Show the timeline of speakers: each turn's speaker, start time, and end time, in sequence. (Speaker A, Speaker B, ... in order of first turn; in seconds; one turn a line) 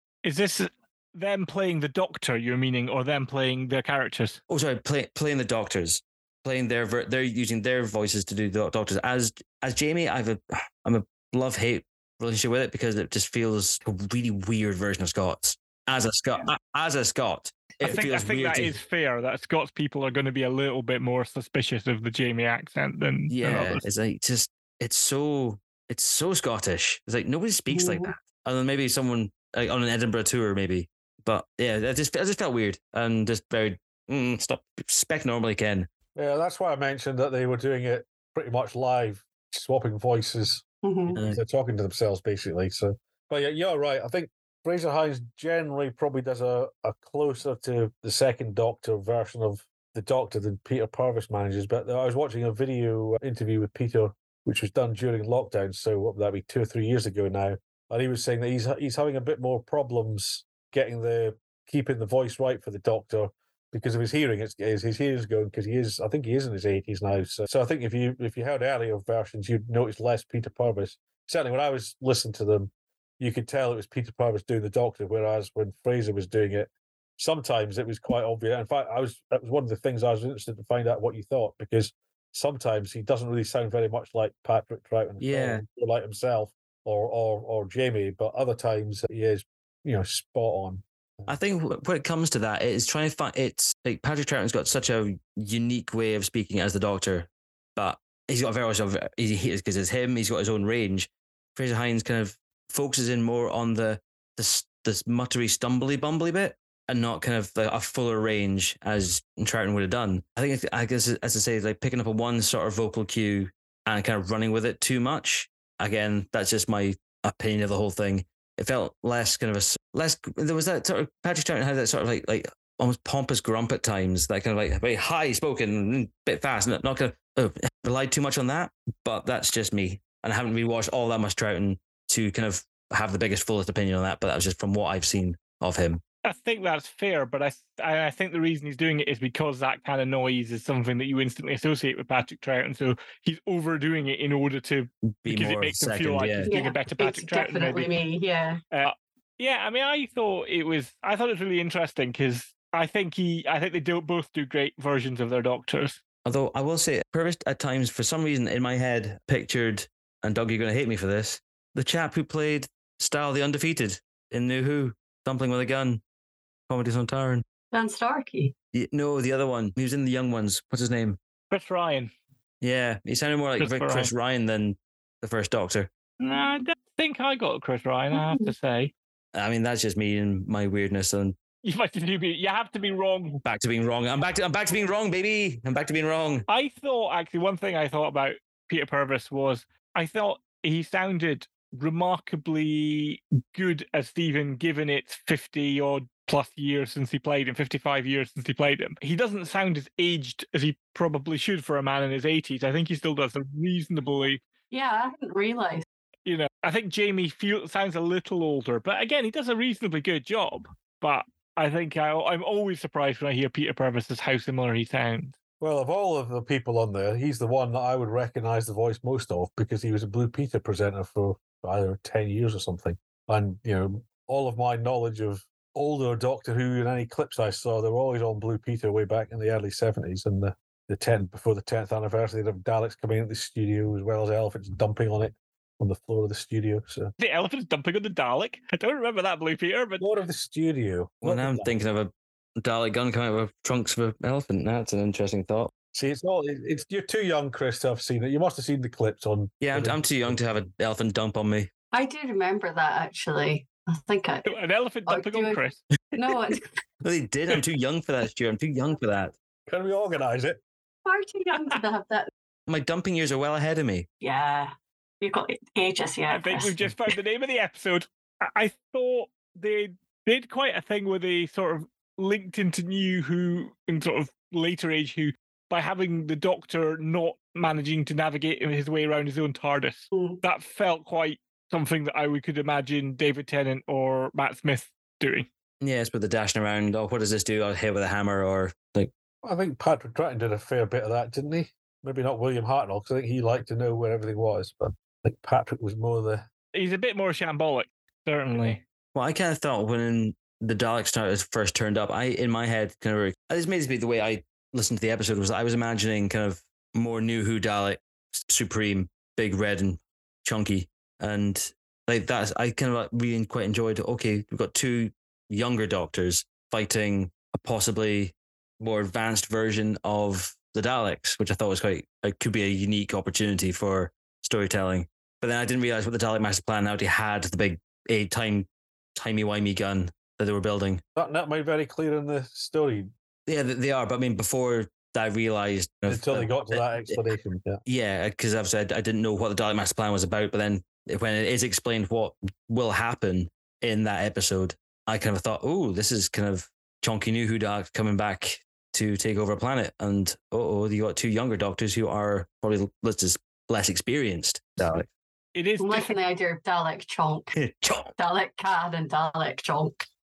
Speaker A: 0.2-4.4
Speaker B: 4.5-18.7
Speaker A: 17.8-23.8
Speaker B: 23.3-35.9
Speaker C: 27.7-28.1
Speaker D: 36.1-91.3
Speaker C: 40.8-41.2
Speaker B: 85.2-85.6
Speaker B: 91.3-136.0
Speaker A: 136.2-147.9
Speaker B: 145.2-146.5
Speaker C: 146.5-148.6
Speaker A: 148.7-156.0
Speaker B: 156.2-166.0
Speaker B: 166.7-167.4
Speaker C: 167.7-168.5
Speaker B: 168.7-171.2
Speaker A: 171.5-172.1
Speaker B: 172.6-175.9
Speaker A: 173.6-174.1
Speaker A: 176.2-178.9
Speaker C: 178.1-178.5
Speaker B: 179.3-181.3
Speaker A: 181.6-183.4
Speaker B: 183.4-186.4
Speaker A: 186.5-204.4
Speaker C: 204.7-205.8
Speaker A: 206.2-215.3
Speaker D: 215.6-237.1
Speaker A: 237.2-240.1
Speaker D: 240.0-241.8
Speaker B: 241.2-245.7
Speaker D: 245.9-250.4
Speaker B: 249.6-251.7
Speaker C: 251.9-254.4
Speaker A: 254.5-255.8
Speaker C: 255.1-255.6
Speaker C: 256.1-256.6
Speaker B: 257.0-259.3
Speaker D: 259.7-260.6
Speaker C: 261.0-262.3
Speaker B: 262.7-264.1
Speaker C: 264.2-266.7
Speaker A: 266.3-285.5
Speaker C: 280.1-280.4
Speaker B: 285.8-289.1
Speaker D: 289.4-296.5
Speaker A: 296.7-298.8
Speaker B: 299.1-331.0
Speaker D: 331.1-333.1
Speaker B: 333.5-337.2
Speaker D: 336.1-337.8
Speaker B: 337.9-355.1
Speaker A: 355.5-356.1
Speaker C: 355.8-357.5
Speaker B: 357.5-358.1
Speaker C: 358.2-359.9